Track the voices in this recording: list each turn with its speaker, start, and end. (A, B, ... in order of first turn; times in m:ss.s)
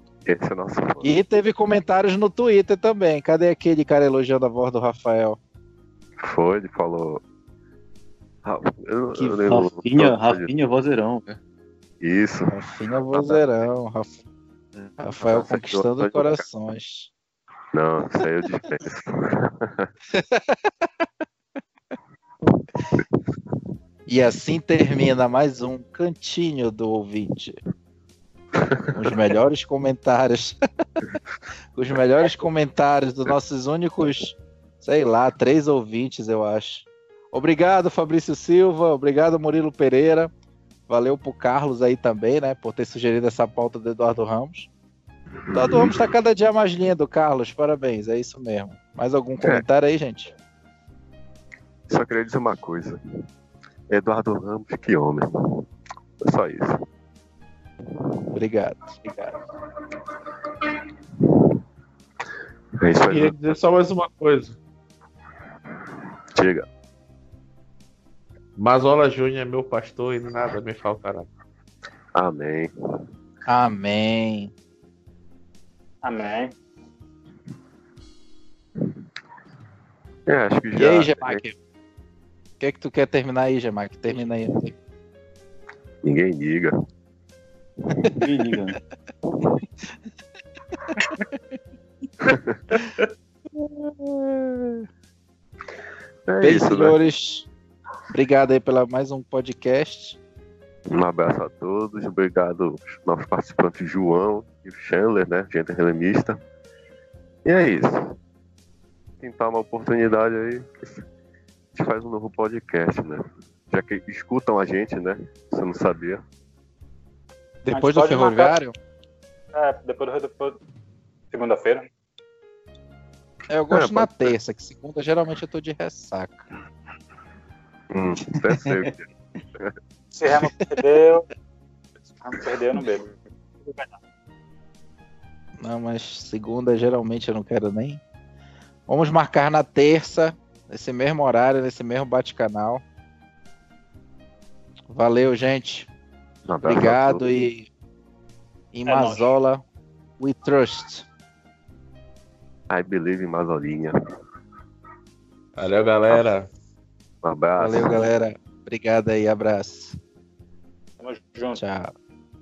0:00.2-0:01.2 A
0:01.0-0:05.4 B
0:06.2-0:07.2 A
0:08.4-0:10.5 A
0:09.2-0:09.6 B
0:09.5-0:11.4 C
0:12.0-0:13.4 A
0:12.5-0:14.2 B
0:14.9-0:16.4 A
0:15.0-0:17.1 B
0:17.7-0:19.9 A
0:20.1-0:20.6 B
0:22.5-0:23.0 A
0:24.1-0:27.6 B
0:28.6-0:29.0 A
0:29.0-0:30.6 B
0:31.8-0:40.3 B
0:40.9-0:44.7 B
0:45.5-0:46.1 A
0:45.5-0:50.4 B
0:51.9-0:53.0 A
0:53.9-0:55.7 A
0:56.2-0:56.8 A
0:57.9-0:58.3 A
0:58.3-0:59.3 B
1:02.8-1:03.5 A
1:03.0-1:04.6 D
1:06.4-1:06.7 A
1:08.6-1:11.3 D
1:12.2-1:12.7 A
1:13.5-1:14.5 B
1:16.0-1:16.5 E
1:20.3-1:21.4 A
1:20.8-1:21.6 B
1:22.6-1:24.7 B
1:26.0-1:26.7 A
1:27.9-1:28.2 A
1:28.2-1:28.8 C
1:32.2-1:32.6 A
1:33.6-1:34.8 B
1:36.3-1:37.0 A
1:36.4-1:37.5 B
1:38.1-1:40.2 B
1:40.9-1:46.4 A
1:47.4-1:48.2 A
1:49.2-1:51.0 A
1:51.7-1:56.2 A
1:57.6-1:58.8 B
1:57.7-1:58.6 E
1:59.5-2:00.6 E
2:01.3-2:01.9 E
2:03.5-2:06.5 B
2:03.7-2:04.3 A
2:07.9-2:09.7 A
2:08.2-2:08.8 C
2:10.1-2:11.3 E
2:12.2-2:14.0 E
2:15.6-2:18.0 B
2:18.9-2:22.8 B
2:24.9-2:25.9 B
2:26.5-2:27.3 A
2:26.6-2:27.7 B
2:28.7-2:29.6 B
2:28.9-2:29.3 E
2:30.2-2:31.1 B
2:32.7-2:34.0 A
2:35.6-2:36.5 D
2:37.2-2:38.1 A
2:37.6-2:40.0 B
2:41.0-2:41.6 E
2:41.6-2:41.9 B